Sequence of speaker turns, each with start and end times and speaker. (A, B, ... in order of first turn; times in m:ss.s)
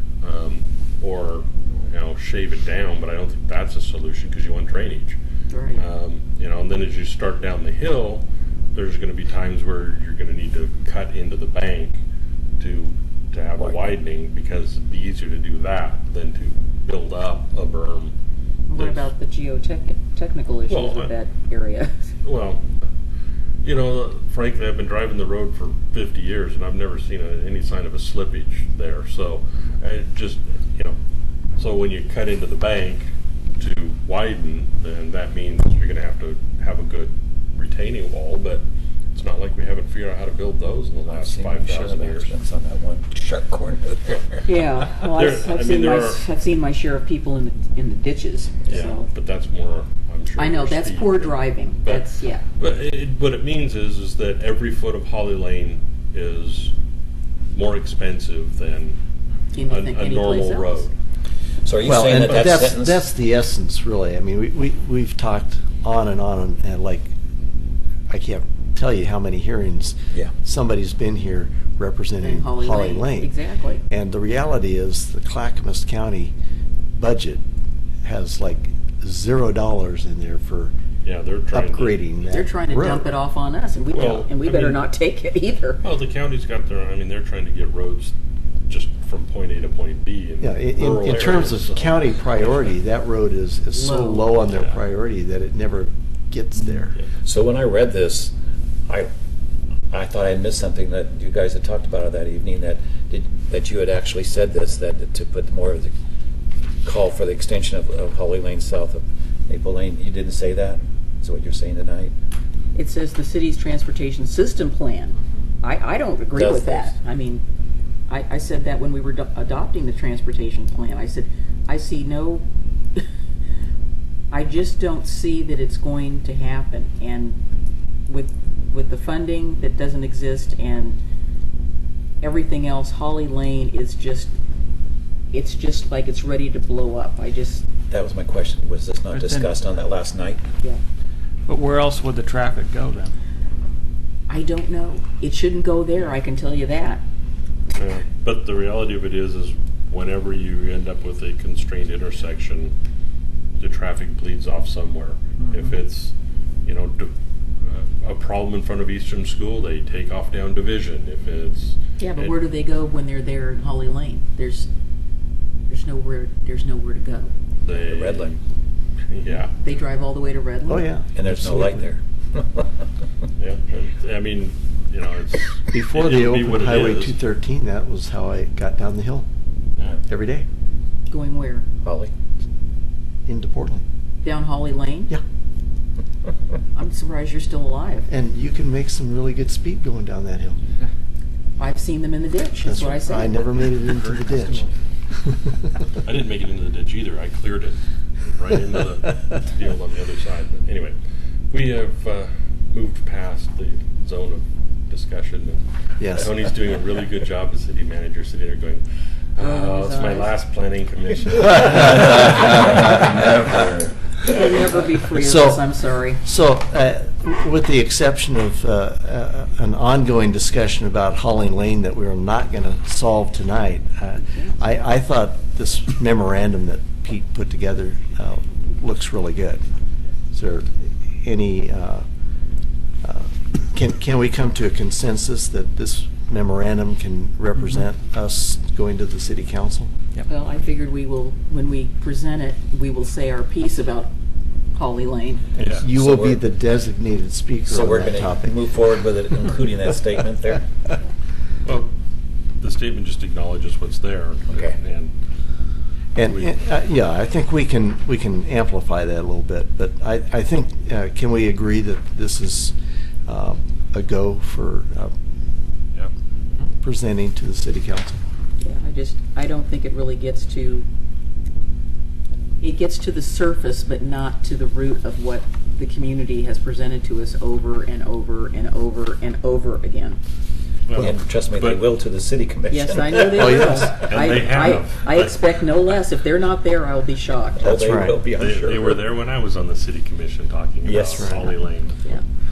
0:00.2-0:05.2 A
0:05.5-0:05.8 B
0:05.8-0:12.0 A
0:12.6-0:18.1 A
0:18.7-0:22.1 B
0:18.8-0:19.1 A
0:20.7-0:21.1 A
0:22.2-0:22.7 A
0:23.6-0:31.0 A
0:31.6-0:42.4 A
0:41.1-0:44.4 C
0:44.5-0:49.1 B
0:45.1-0:46.2 A
0:48.7-0:56.7 A
0:50.4-0:52.4 B
0:57.5-0:59.0 A
0:59.5-1:00.9 B
0:59.6-1:00.9 A
1:01.6-1:03.1 C
1:01.8-1:07.1 D
1:08.1-1:13.3 D
1:12.2-1:13.8 B
1:13.9-1:16.3 D
1:17.0-1:17.4 D
1:18.0-1:20.7 D
1:21.0-1:22.0 A
1:21.5-1:23.1 D
1:22.3-1:25.8 B
1:23.9-1:24.9 A
1:25.8-1:28.1 A
1:28.7-1:32.7 A
1:30.4-1:37.0 D
1:33.7-1:34.4 B
1:34.5-1:34.8 A
1:37.2-1:38.3 C
1:39.9-1:45.9 C
1:46.8-1:52.1 C
1:52.8-1:57.4 B
1:56.3-1:56.9 C
1:58.1-2:03.0 B
2:04.3-2:07.4 B
2:08.1-2:11.0 B
2:12.2-2:14.3 B
2:15.3-2:17.7 B
2:17.9-2:20.4 C
2:19.1-2:19.5 E
2:21.5-2:23.1 E
2:24.3-2:27.0 B
2:27.7-2:32.7 A
2:33.6-2:36.1 A
2:36.6-2:37.1 A
2:37.6-2:42.4 A
2:42.0-2:44.7 B
2:45.7-2:47.3 B
2:47.6-2:48.4 A
2:47.7-2:48.4 C
2:49.1-2:49.5 A
2:49.5-2:50.9 B
2:50.7-2:51.9 D
2:51.2-2:52.7 C
2:53.4-2:57.2 A
2:55.7-2:59.3 D
3:00.1-3:00.4 D
3:01.1-3:01.7 B
3:01.8-3:02.1 C
3:03.3-3:03.8 D
3:04.2-3:05.1 B
3:06.7-3:08.1 B
3:08.1-3:10.6 D
3:11.6-3:13.4 B
3:12.6-3:14.7 D
3:13.7-3:14.7 E
3:16.0-3:21.0 A
3:21.5-3:28.8 A
3:26.0-3:26.3 D
3:29.4-3:32.1 A
3:29.4-3:30.3 B
3:31.4-3:33.8 D
3:32.2-3:34.3 C
3:34.2-3:36.2 B
3:35.1-3:49.6 D
3:44.2-3:44.6 B
3:50.3-3:52.0 D
3:53.0-3:59.9 D
4:00.3-4:04.1 B
4:04.7-4:05.5 B
4:05.5-4:08.6 D
4:05.6-4:05.9 A
4:05.8-4:06.4 C
4:07.7-4:10.7 C
4:11.6-4:11.9 A
4:12.6-4:15.1 A
4:14.5-4:14.8 C
4:16.2-4:25.1 D
4:16.3-4:16.6 A
4:26.8-4:28.2 D
4:28.6-4:30.9 B
4:32.6-4:40.2 B
4:40.9-4:41.8 A
4:41.0-4:43.6 C
4:42.7-4:48.0 B
4:43.3-4:44.1 D
4:44.0-4:45.4 A
4:47.6-4:49.0 C
4:47.7-4:48.2 D
4:48.4-4:52.2 A
4:50.8-4:51.5 C
4:51.1-4:51.5 D